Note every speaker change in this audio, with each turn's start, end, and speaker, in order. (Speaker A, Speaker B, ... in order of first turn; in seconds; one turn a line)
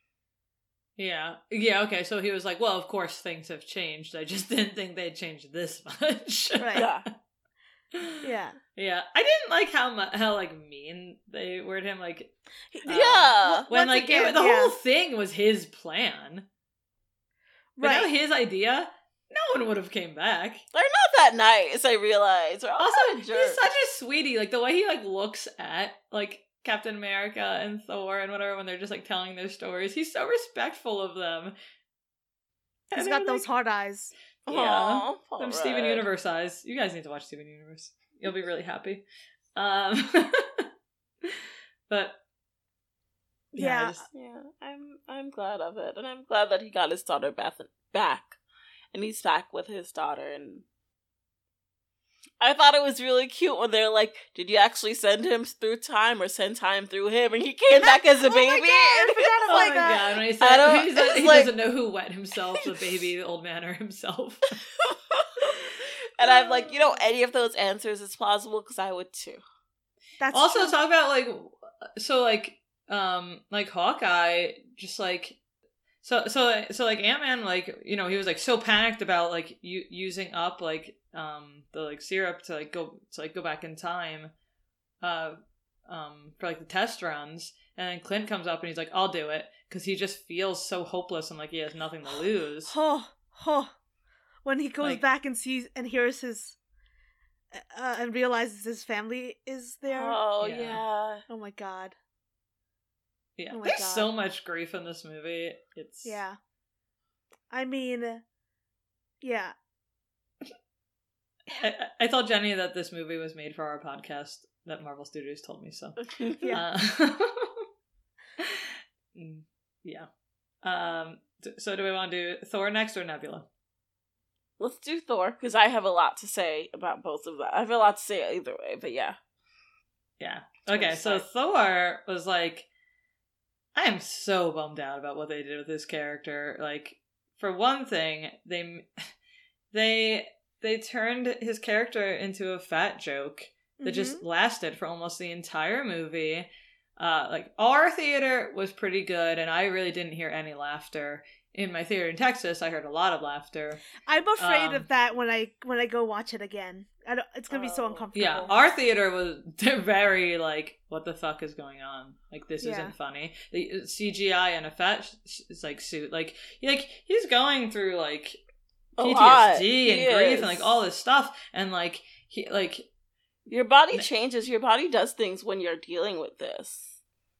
Speaker A: 1.0-7.0
Speaker B: 6.6-6.9
Speaker C: 6.8-7.0
Speaker B: 8.2-8.6
Speaker A: 8.8-12.3
Speaker B: 12.7-14.8
Speaker C: 12.9-13.7
Speaker A: 12.9-16.5
Speaker B: 17.8-18.1
Speaker A: 17.8-20.6
Speaker C: 20.7-23.6
Speaker A: 22.8-31.6
Speaker A: 32.9-33.5
Speaker B: 32.9-34.1
Speaker C: 34.5-36.1
Speaker A: 34.5-40.7
Speaker A: 41.2-42.2
Speaker B: 43.5-44.0
Speaker A: 43.5-44.1
Speaker C: 44.1-48.4
Speaker C: 48.9-50.6
Speaker C: 52.4-59.7
Speaker B: 57.8-60.0
Speaker A: 59.5-64.6
Speaker C: 60.4-61.5
Speaker C: 64.8-69.4
Speaker B: 70.2-70.8
Speaker A: 70.3-75.4
Speaker A: 76.0-84.3
Speaker A: 85.0-92.7
Speaker B: 92.7-93.7
Speaker B: 94.5-96.6
Speaker B: 97.5-100.2
Speaker C: 99.9-101.2
Speaker A: 100.4-100.8
Speaker B: 101.3-102.0
Speaker A: 103.4-106.2
Speaker B: 103.5-104.1
Speaker B: 106.0-106.4
Speaker B: 107.5-108.2
Speaker B: 109.2-109.5
Speaker A: 111.6-117.6
Speaker C: 116.1-116.6
Speaker A: 118.4-120.1
Speaker A: 120.6-123.5
Speaker C: 124.6-129.2
Speaker A: 130.2-132.7
Speaker C: 130.7-131.2
Speaker A: 133.8-139.1
Speaker A: 139.7-154.9
Speaker B: 143.8-144.2
Speaker B: 154.1-158.7
Speaker C: 157.5-158.6
Speaker A: 158.2-168.4
Speaker B: 162.6-162.9
Speaker C: 169.0-170.8
Speaker A: 169.0-172.9
Speaker C: 173.5-176.9